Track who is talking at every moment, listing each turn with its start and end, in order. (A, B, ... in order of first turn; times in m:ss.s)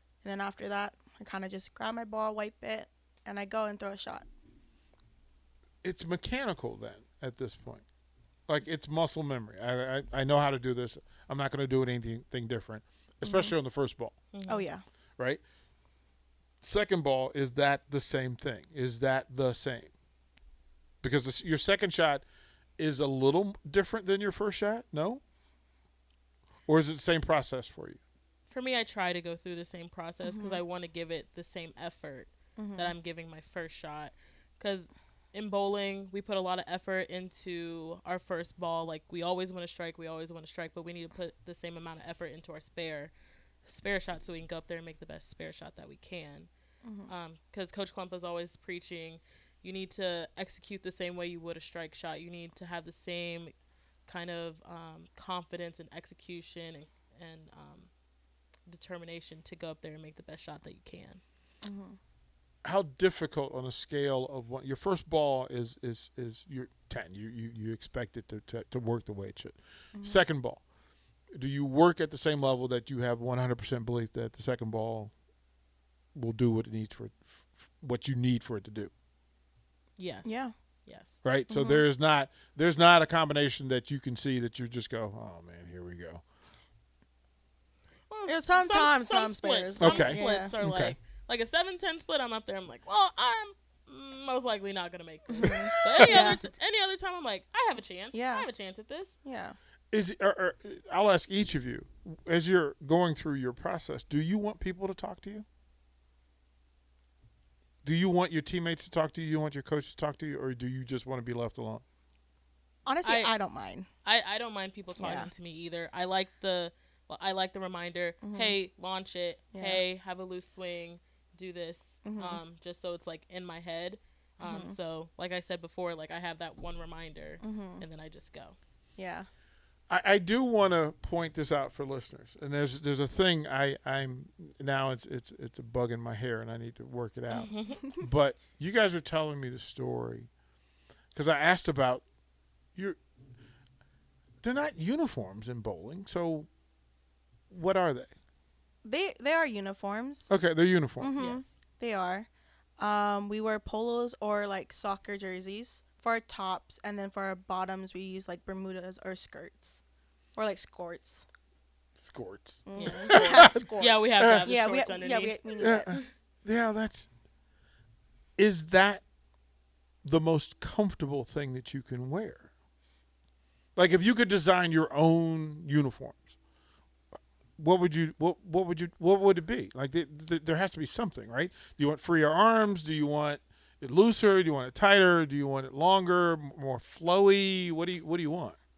0:00.2-0:04.3 A
0:05.8-0:07.8 B
0:08.5-0:14.1 B
0:13.2-0:13.5 A
0:14.3-0:14.7 C
0:14.5-0:14.8 A
0:16.6-0:19.9 B
0:21.0-0:22.2 B
0:22.8-0:25.2 B
0:26.7-0:28.0 B
0:28.5-0:43.1 C
0:30.2-0:30.6 A
0:32.6-0:33.0 A
0:43.6-0:46.5 C
0:46.8-0:47.1 A
0:47.1-0:53.5 C
0:54.1-0:57.9 C
0:58.7-1:01.2 C
1:01.6-1:02.0 A
1:02.6-1:10.6 B
1:09.9-1:10.2 A
1:11.3-1:15.1 B
1:16.1-1:18.9 B
1:20.0-1:20.3 C
1:20.2-1:20.5 A
1:20.9-1:21.2 C
1:21.2-1:26.2 B
1:21.5-1:21.8 A
1:28.1-1:39.2 C
1:28.2-1:30.5 A
1:29.8-1:31.0 B
1:35.3-1:36.4 A
1:35.4-1:36.4 B
1:38.1-1:38.5 A
1:39.2-1:39.6 A
1:39.9-1:45.4 B
1:47.8-1:51.8 B
1:52.8-1:53.9 A
1:53.0-1:53.3 C
1:54.0-2:08.6 C
1:55.0-1:55.3 A
1:58.2-1:58.6 A
1:59.5-1:59.8 A
2:02.0-2:02.4 A
2:04.4-2:04.8 A
2:07.4-2:07.8 A
2:09.0-2:09.3 A
2:09.9-2:20.3 B
2:17.3-2:17.8 C
2:21.1-2:22.0 B
2:24.4-2:26.5 B
2:27.5-2:28.1 B
2:28.8-2:30.3 A
2:30.3-2:31.1 B
2:31.0-2:39.8 A
2:31.2-2:31.5 C
2:40.4-2:41.2 A
2:42.0-2:44.5 B
2:42.7-2:46.0 A
2:42.8-2:46.0 C
2:45.6-2:45.9 B
2:46.4-2:47.1 B
2:48.4-2:49.0 B
2:50.0-2:52.5 B
2:53.8-2:56.3 B
2:57.6-3:08.6 B